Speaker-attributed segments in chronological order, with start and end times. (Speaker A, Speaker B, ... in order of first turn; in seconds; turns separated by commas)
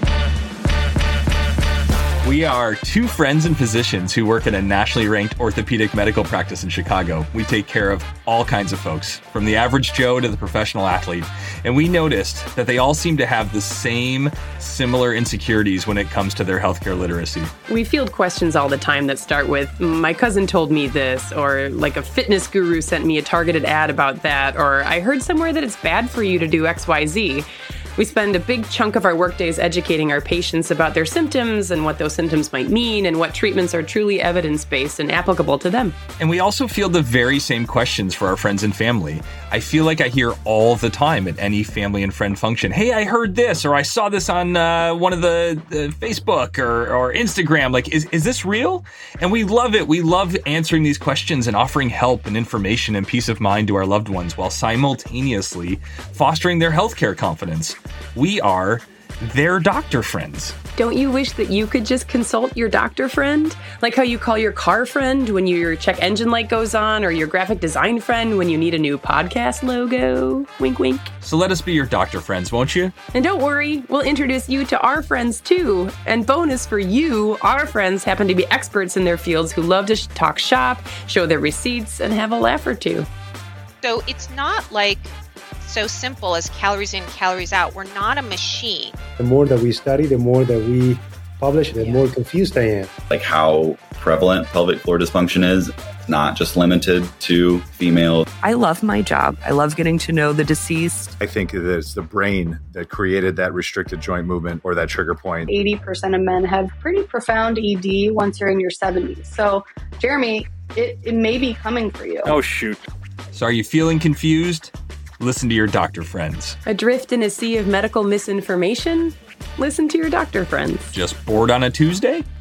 Speaker A: 2.2-17.5, Speaker B: 17.7-36.0, Speaker A: 36.2-60.5, Speaker B: 60.8-71.1, Speaker A: 71.2-72.9, Speaker B: 73.1-83.1, Speaker C: 83.8-89.0, Speaker D: 89.2-92.9, Speaker E: 93.1-98.2, Speaker F: 98.4-101.1, Speaker G: 101.2-105.5, Speaker H: 105.5-112.4, Speaker A: 112.2-116.6, Speaker B: 116.7-121.0, Speaker A: 120.9-122.2